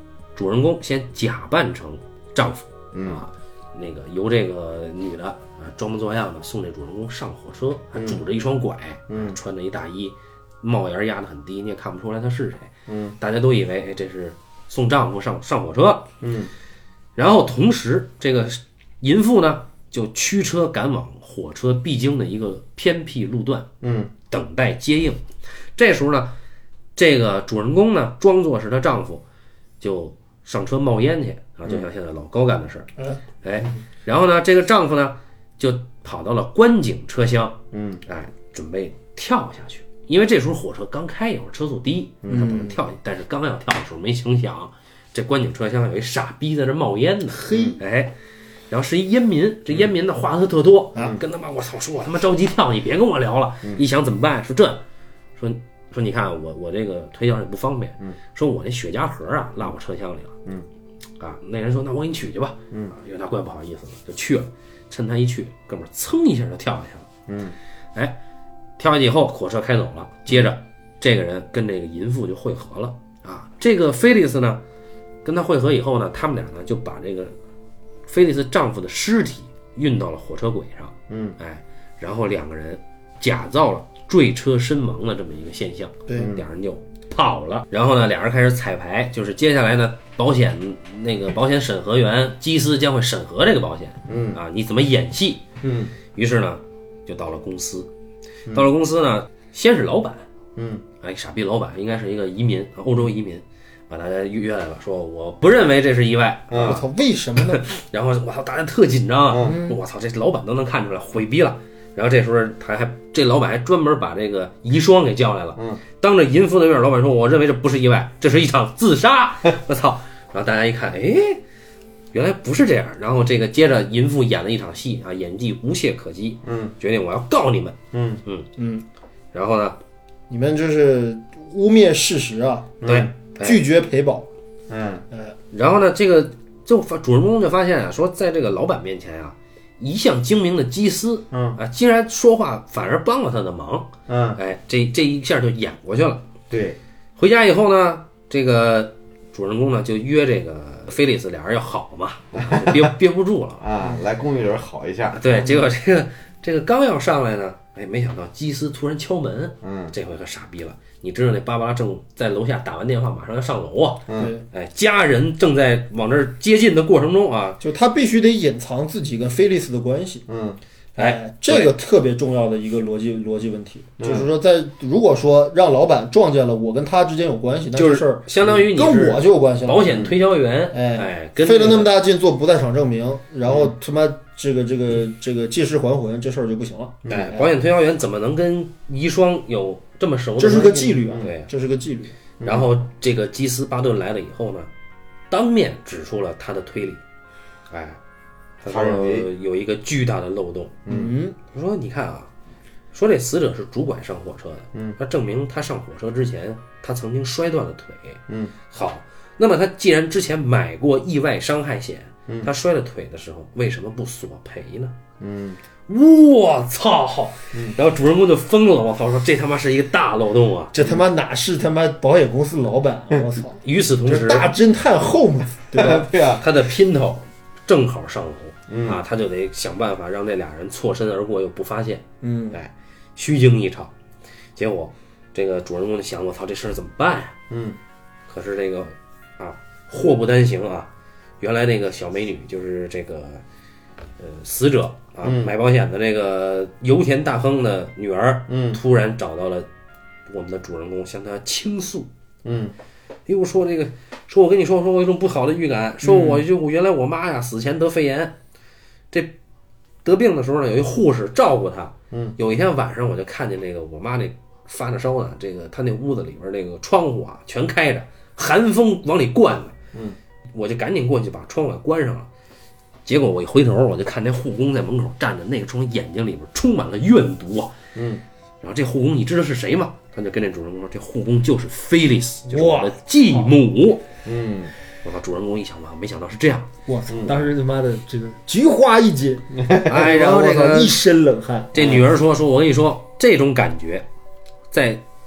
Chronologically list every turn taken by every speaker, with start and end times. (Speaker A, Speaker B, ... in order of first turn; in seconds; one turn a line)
Speaker A: 0.3-16.1
Speaker B: 2.9-3.2
Speaker B: 9.1-9.4
Speaker B: 12.9-13.2
Speaker B: 16.2-16.5
Speaker A: 17.1-23.7
Speaker B: 23.8-24.1
Speaker A: 24.3-25.2
Speaker A: 25.8-26.3
Speaker A: 26.9-29.2
Speaker A: 29.8-32.9
Speaker A: 33.4-48.1
Speaker B: 37.7-38.0
Speaker B: 42.2-42.6
Speaker C: 42.3-42.8
Speaker C: 47.3-47.8
Speaker B: 47.5-47.8
Speaker A: 48.7-54.8
Speaker A: 55.4-60.3
Speaker A: 61.2-67.1
Speaker B: 67.3-67.5
Speaker A: 68.8-74.6
Speaker A: 75.2-77.3
Speaker A: 78.1-95.4
Speaker B: 81.1-81.4
Speaker C: 86.1-86.3
Speaker B: 86.1-86.4
Speaker B: 94.0-94.4
Speaker B: 95.6-95.9
Speaker A: 96.1-97.9
Speaker A: 98.5-100.2
Speaker B: 100.5-100.8
Speaker A: 101.0-106.8
Speaker B: 106.5-106.8
Speaker C: 106.6-107.7
Speaker A: 107.5-121.4
Speaker B: 109.3-109.6
Speaker C: 109.4-109.8
Speaker A: 122.1-128.5
Speaker B: 126.4-126.7
Speaker B: 127.9-128.2
Speaker C: 128.6-128.8
Speaker A: 129.3-129.8
Speaker C: 130.3-132.8
Speaker B: 132.8-133.1
Speaker A: 132.8-133.6
Speaker C: 133.4-134.3
Speaker B: 134.7-135.0
Speaker A: 135.5-146.2
Speaker B: 141.3-141.6
Speaker B: 144.1-144.4
Speaker B: 146.5-146.8
Speaker A: 147.2-153.6
Speaker B: 152.3-152.9
Speaker B: 153.6-155.5
Speaker A: 155.1-167.6
Speaker B: 159.6-159.9
Speaker B: 164.1-164.3
Speaker C: 164.1-164.4
Speaker C: 167.6-170.2
Speaker B: 170.3-170.6
Speaker A: 171.0-171.8
Speaker C: 171.0-180.0
Speaker B: 174.0-174.3
Speaker A: 177.8-181.9
Speaker B: 179.9-180.1
Speaker C: 180.7-187.1
Speaker B: 183.4-183.7
Speaker B: 187.0-187.4
Speaker A: 187.1-191.5
Speaker C: 190.4-192.1
Speaker B: 192.4-192.7
Speaker A: 192.4-194.7
Speaker A: 195.3-197.0
Speaker A: 197.7-198.0
Speaker A: 198.6-200.8
Speaker B: 198.7-199.3
Speaker B: 200.8-201.1
Speaker C: 200.9-201.4
Speaker A: 201.5-202.3
Speaker A: 202.9-215.0
Speaker B: 208.3-208.5
Speaker B: 215.2-215.6
Speaker A: 215.9-220.7
Speaker C: 220.7-226.1
Speaker A: 223.6-224.5
Speaker B: 225.7-226.4
Speaker A: 226.4-233.9
Speaker B: 228.7-229.0
Speaker C: 232.2-232.6
Speaker A: 234.6-237.4
Speaker B: 237.5-237.8
Speaker A: 238.3-243.4
Speaker A: 244.2-249.7
Speaker B: 245.2-245.5
Speaker B: 248.5-248.8
Speaker A: 250.3-252.1
Speaker B: 252.4-252.7
Speaker A: 253.3-258.4
Speaker A: 260.0-269.8
Speaker B: 262.1-262.4
Speaker A: 270.5-272.3
Speaker A: 273.1-277.7
Speaker B: 277.9-278.2
Speaker A: 278.6-284.0
Speaker C: 282.5-283.5
Speaker B: 284.2-284.7
Speaker A: 285.0-286.7
Speaker C: 286.9-292.0
Speaker B: 287.1-287.5
Speaker B: 289.6-290.0
Speaker A: 289.9-291.0
Speaker A: 291.7-294.1
Speaker A: 294.7-295.0